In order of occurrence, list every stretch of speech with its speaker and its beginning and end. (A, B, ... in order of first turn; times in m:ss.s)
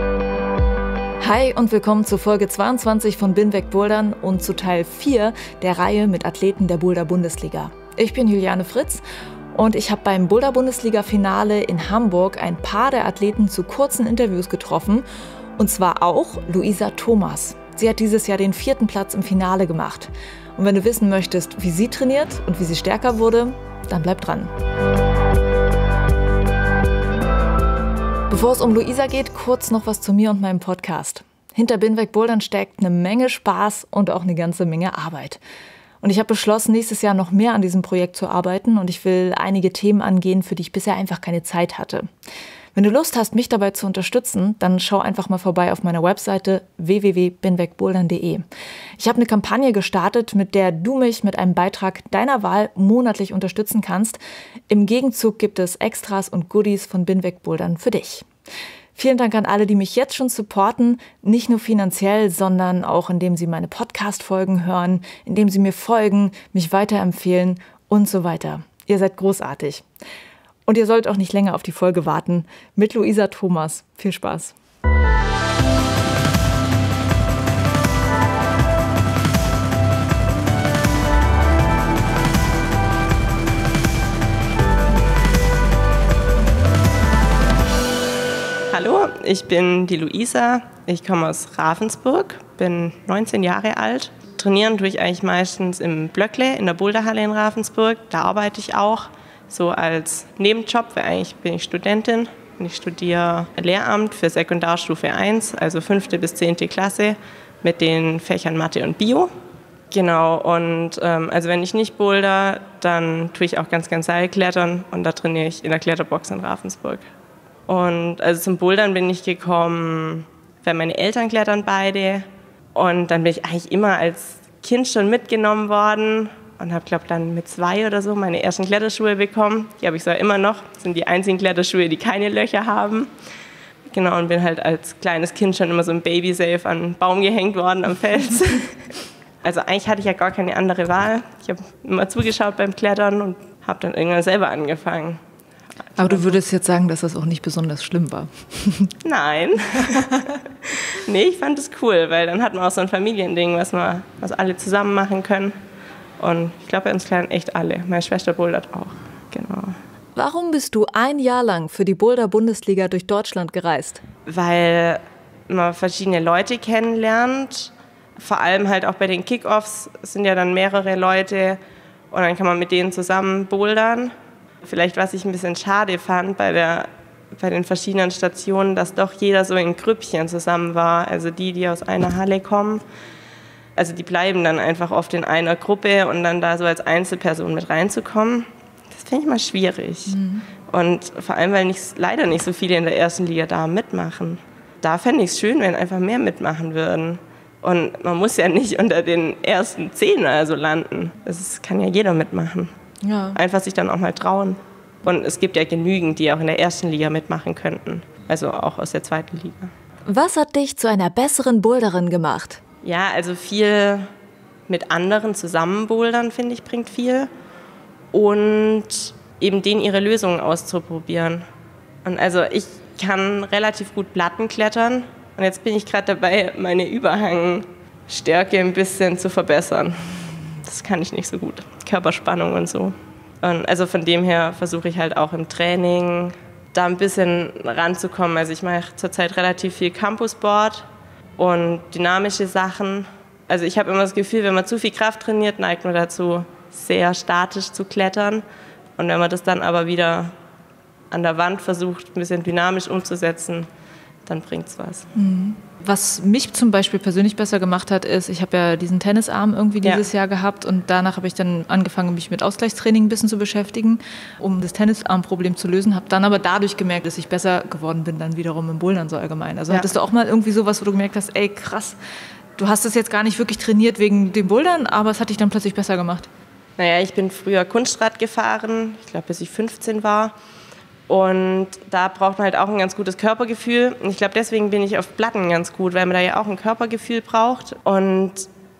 0:01.2-0:09.0 A
0:09.5-0:15.0 A
0:15.6-0:24.5 A
0:28.3-0:35.4 A
0:36.0-0:42.1 A
0:42.7-0:48.4 A
0:49.0-0:54.2 A
0:54.7-0:58.2 A
0:58.9-1:09.8 A
1:10.7-1:14.5 A
1:28.7-1:49.3 B
1:49.9-1:57.0 B
1:57.7-2:13.1 B
2:13.9-2:25.2 B
2:25.8-2:26.4 B
2:26.0-2:28.9 A
2:29.0-2:35.5 B
2:36.2-2:39.8 B
2:40.2-2:44.0 A
2:44.3-2:51.6 B
2:52.1-2:54.1 B
2:54.6-3:02.8 B
3:03.8-3:22.7 B
3:10.2-3:10.4 A
3:23.0-3:23.4 A
3:23.3-3:29.7 B
3:30.0-3:32.6 A
3:32.8-3:34.0 B
3:34.7-3:37.3 B
3:38.1-3:41.4 B
3:42.0-4:08.4 B
4:09.0-4:10.3 B
4:11.1-4:13.7 B
4:14.3-4:15.1 B
4:15.1-4:32.0 A
4:32.6-4:36.3 A
4:36.8-4:40.3 B
4:41.1-4:48.5 B